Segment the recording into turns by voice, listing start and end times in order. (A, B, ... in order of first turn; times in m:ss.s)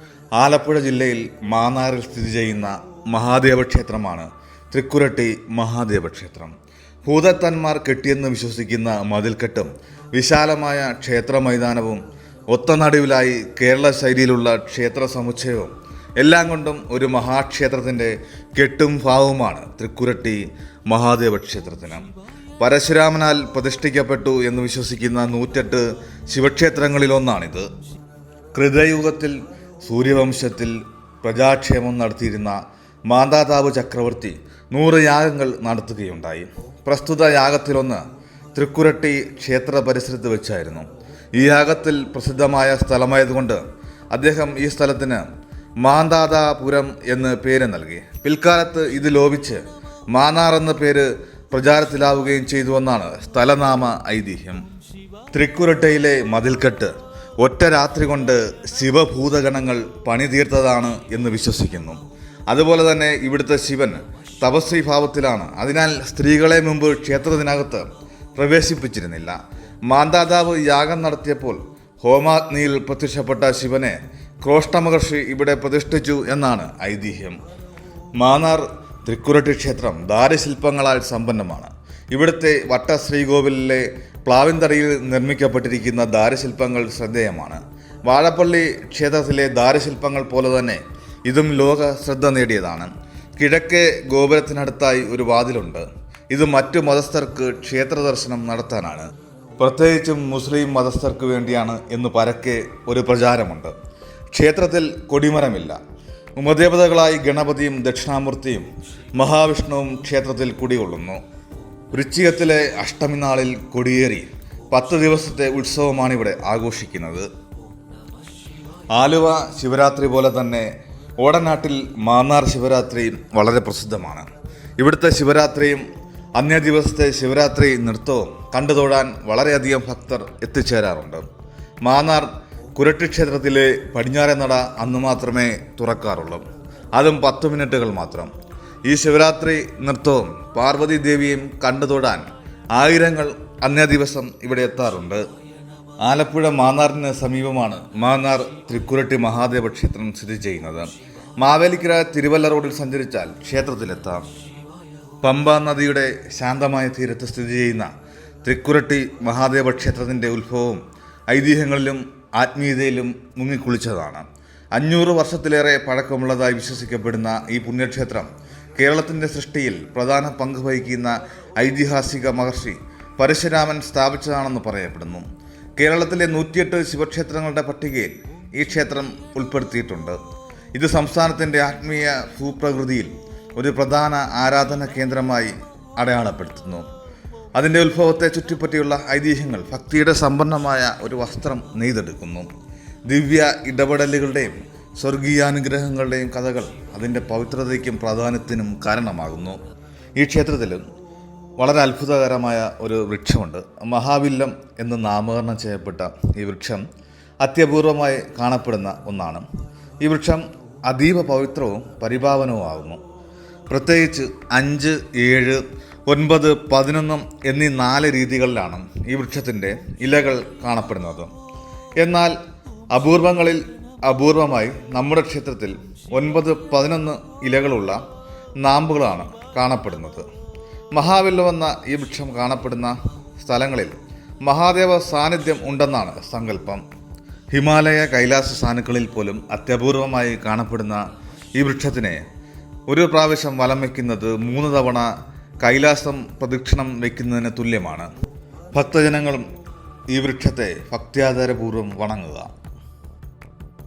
0:00.4-0:22.1 A
0:22.6-0:27.7 A
0:28.6-0:38.0 A
0:38.6-0:45.2 A
0:45.8-0:54.6 A
0:55.3-1:17.4 A
1:18.2-1:43.7 A
1:44.3-1:45.8 A
1:46.4-1:51.2 A
1:51.9-1:57.3 A
1:58.9-2:00.7 A
2:01.2-2:05.9 A
2:06.4-2:11.2 A
2:11.8-2:16.4 A
2:17.0-2:18.3 A
2:18.9-2:25.2 A
2:26.0-2:34.3 A
2:35.2-2:37.9 A
2:38.4-2:55.2 A
2:55.8-3:00.2 A
3:00.8-3:06.8 A
3:07.6-3:12.5 A
3:13.1-3:19.6 A
3:20.2-3:20.8 A
3:21.6-3:26.8 A
3:27.4-3:29.4 A
3:30.0-3:33.0 A
3:33.7-3:41.3 A
3:42.0-3:42.4 A
3:42.9-3:48.0 A
3:48.6-3:50.3 A
3:51.0-3:54.0 A
3:54.5-3:56.8 A
3:57.5-4:02.2 A
4:02.9-4:05.1 A
4:05.6-4:08.1 A
4:08.7-4:09.5 A
4:10.1-4:12.5 A